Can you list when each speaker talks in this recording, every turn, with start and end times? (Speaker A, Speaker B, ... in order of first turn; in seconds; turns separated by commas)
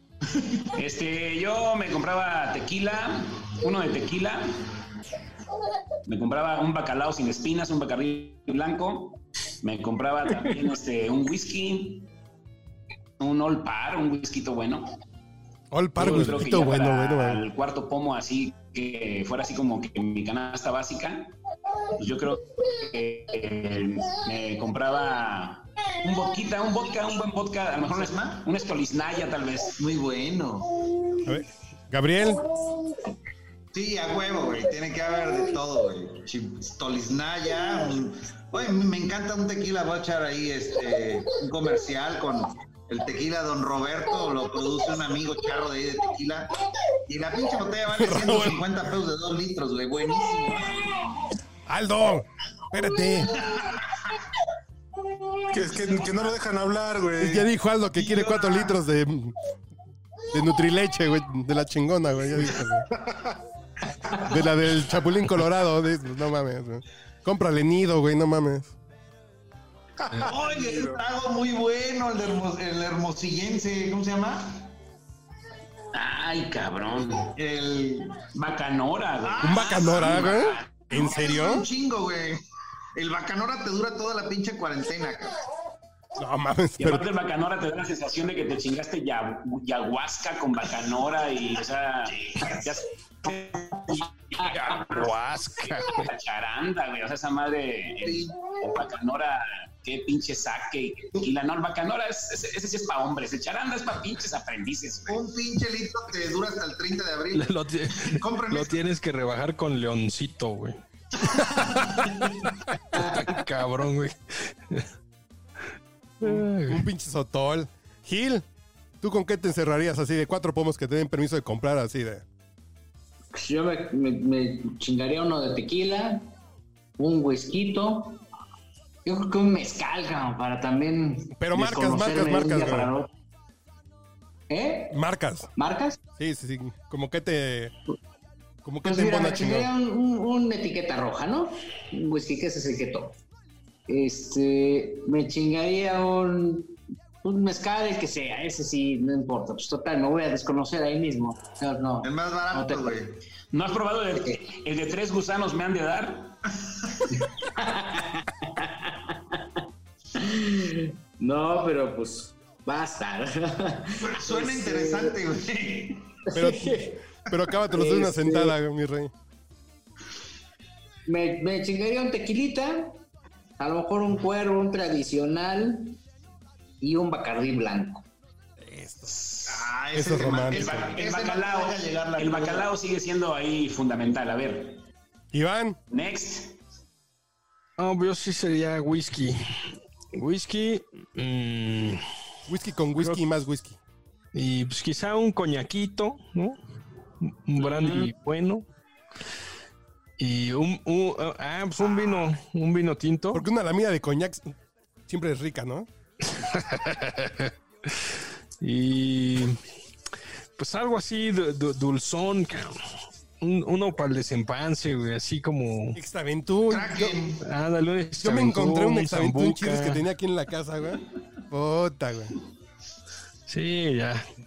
Speaker A: 0.7-4.5, Speaker A: 6.0-12.1, Speaker A: 13.2-14.9, Speaker B: 15.7-17.4, Speaker A: 16.0-21.3, Speaker A: 22.0-29.8, Speaker C: 27.8-28.4, Speaker C: 29.8-30.8, Speaker B: 31.2-32.4, Speaker C: 33.7-46.5, Speaker C: 47.1-50.9, Speaker B: 47.9-48.6, Speaker B: 51.7-53.4, Speaker C: 53.5-53.8, Speaker D: 55.5-57.5, Speaker B: 57.2-59.3, Speaker D: 58.0-58.5, Speaker B: 60.3-62.9, Speaker B: 64.2-68.7, Speaker D: 70.0-71.0, Speaker C: 70.2-74.6, Speaker A: 75.9-77.3, Speaker C: 77.3-78.2, Speaker A: 78.3-80.9, Speaker C: 79.2-82.4, Speaker B: 79.4-81.7, Speaker C: 83.0-85.4, Speaker B: 86.2-87.1, Speaker A: 86.8-95.1, Speaker E: 94.7-96.1, Speaker A: 95.9-105.2, Speaker C: 98.0-98.3, Speaker C: 105.1-108.8, Speaker E: 107.3-110.8, Speaker C: 111.3-112.1, Speaker E: 112.9-114.9, Speaker B: 116.2-118.4, Speaker E: 116.2-116.8, Speaker B: 119.0-122.2, Speaker F: 123.3-126.3, Speaker F: 127.0-128.2, Speaker F: 129.0-133.1, Speaker B: 131.4-132.9, Speaker F: 134.5-135.0, Speaker B: 134.9-135.5, Speaker F: 135.6-136.0, Speaker B: 136.2-137.7, Speaker B: 138.6-139.7, Speaker F: 138.8-143.1, Speaker F: 143.9-152.8, Speaker C: 152.0-153.2, Speaker A: 153.5-156.4, Speaker F: 157.6-159.4, Speaker F: 160.2-165.2, Speaker C: 164.0-166.0, Speaker F: 166.3-167.0, Speaker B: 166.3-169.1, Speaker F: 167.7-168.5, Speaker F: 171.1-173.0, Speaker F: 173.6-176.0, Speaker F: 176.8-178.0, Speaker B: 178.6-179.2, Speaker A: 179.2-179.5, Speaker C: 179.4-182.7, Speaker B: 179.9-180.9, Speaker A: 180.3-184.8, Speaker B: 185.3-185.8, Speaker A: 185.9-186.6, Speaker E: 187.8-192.0, Speaker B: 192.5-193.8, Speaker E: 194.3-196.6, Speaker E: 197.2-198.6, Speaker E: 200.2-203.4, Speaker B: 203.3-204.5, Speaker B: 205.1-205.9, Speaker E: 206.2-209.6, Speaker E: 210.6-212.8, Speaker E: 213.4-216.0, Speaker B: 215.9-217.2, Speaker C: 216.7-217.4, Speaker E: 217.4-220.0, Speaker B: 218.2-222.3, Speaker E: 223.5-224.2